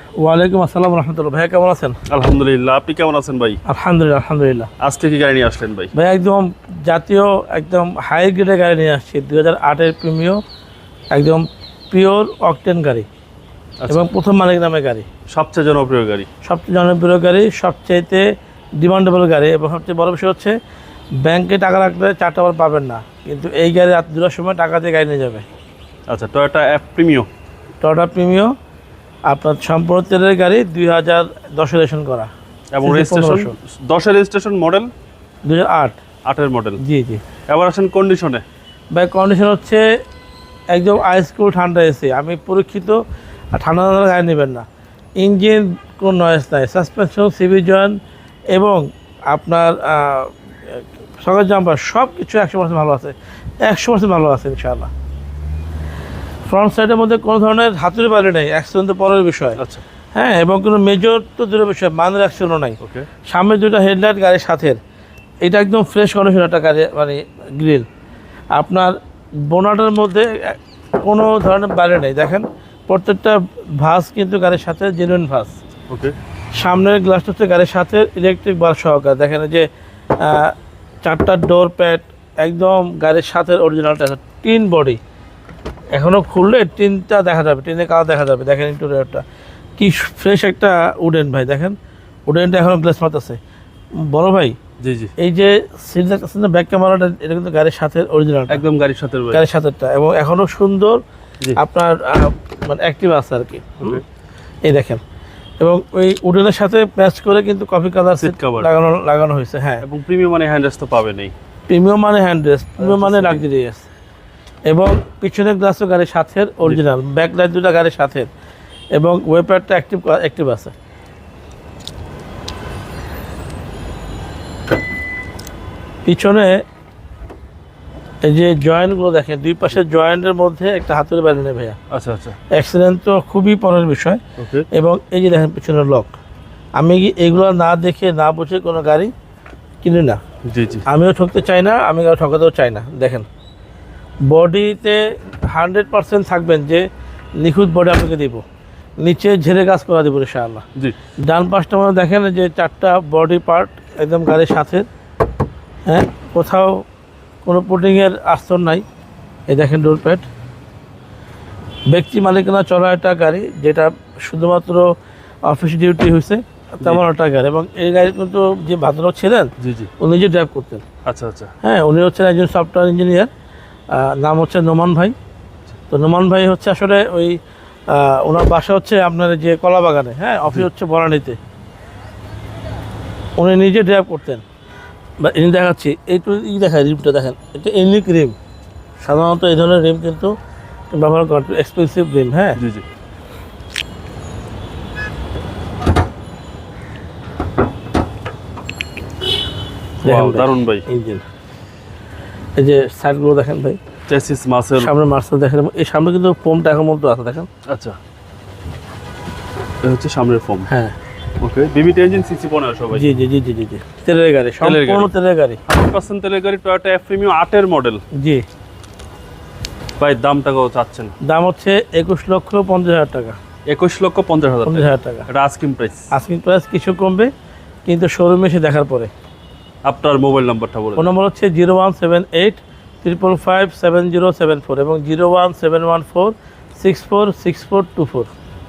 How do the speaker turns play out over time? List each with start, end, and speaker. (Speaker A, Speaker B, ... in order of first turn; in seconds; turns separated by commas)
Speaker A: 0.2-2.0, Speaker B: 2.1-3.6, Speaker A: 3.7-4.7, Speaker B: 4.8-5.9, Speaker A: 5.9-10.4, Speaker A: 11.1-13.1, Speaker B: 13.8-14.1, Speaker A: 13.9-15.1, Speaker B: 15.3-16.3, Speaker A: 16.4-18.2, Speaker A: 18.8-20.6, Speaker A: 21.2-25.4, Speaker B: 26.1-27.3, Speaker A: 27.8-28.5, Speaker A: 29.3-32.3, Speaker B: 32.7-34.9, Speaker A: 32.8-33.5, Speaker A: 35.5-36.0, Speaker B: 36.2-36.8, Speaker A: 36.8-37.2, Speaker B: 37.5-38.4, Speaker A: 38.9-39.8, Speaker A: 40.7-43.0, Speaker A: 43.5-44.6, Speaker A: 45.2-48.0, Speaker A: 48.5-54.9, Speaker A: 56.5-59.6, Speaker B: 59.6-59.8, Speaker A: 60.1-64.8, Speaker A: 65.4-67.8, Speaker A: 68.5-68.9, Speaker A: 69.4-75.5, Speaker B: 75.9-76.2, Speaker A: 76.5-79.7, Speaker A: 80.2-85.0, Speaker A: 85.9-89.2, Speaker A: 89.8-91.7, Speaker A: 92.3-93.4, Speaker A: 94.0-94.6, Speaker B: 94.8-95.1, Speaker A: 95.2-98.6, Speaker B: 98.5-99.4, Speaker A: 99.3-101.0, Speaker A: 101.5-104.0, Speaker A: 104.6-105.0, Speaker A: 105.6-109.8, Speaker B: 108.2-108.7, Speaker B: 109.8-111.3, Speaker A: 111.7-113.8, Speaker B: 112.8-113.4, Speaker A: 114.7-118.3, Speaker A: 118.9-120.7, Speaker A: 126.0-126.6, Speaker A: 128.2-131.8, Speaker B: 131.9-132.4, Speaker A: 132.5-134.2, Speaker B: 134.4-134.7, Speaker A: 134.7-136.1, Speaker A: 136.8-139.1, Speaker A: 139.8-140.2, Speaker B: 140.5-140.8, Speaker A: 140.8-143.3, Speaker A: 144.3-146.8, Speaker A: 147.4-148.4, Speaker A: 149.0-150.6, Speaker A: 151.2-154.9, Speaker A: 155.8-156.8, Speaker A: 157.4-158.8, Speaker A: 159.5-160.2, Speaker A: 161.9-164.8, Speaker A: 165.4-170.8, Speaker B: 169.6-169.9, Speaker B: 171.1-171.5, Speaker A: 171.6-173.3, Speaker A: 173.9-175.1, Speaker A: 175.9-177.4, Speaker A: 177.9-181.4, Speaker A: 183.4-184.4, Speaker A: 185.2-188.3, Speaker A: 189.0-190.3, Speaker A: 190.9-192.6, Speaker B: 192.6-192.8, Speaker A: 200.0-201.2, Speaker B: 200.0-200.8, Speaker A: 202.6-203.8, Speaker B: 204.1-204.9, Speaker A: 204.8-207.5, Speaker B: 207.7-208.0, Speaker B: 209.8-210.7, Speaker A: 210.7-210.9, Speaker B: 211.4-213.1, Speaker A: 212.9-215.6, Speaker B: 214.6-215.1, Speaker B: 215.7-218.0, Speaker A: 218.2-218.4, Speaker B: 220.0-221.1, Speaker A: 221.2-223.4, Speaker B: 223.7-226.1, Speaker A: 224.7-225.3, Speaker A: 226.1-227.3, Speaker A: 227.8-229.1, Speaker B: 229.8-231.1, Speaker A: 230.9-238.3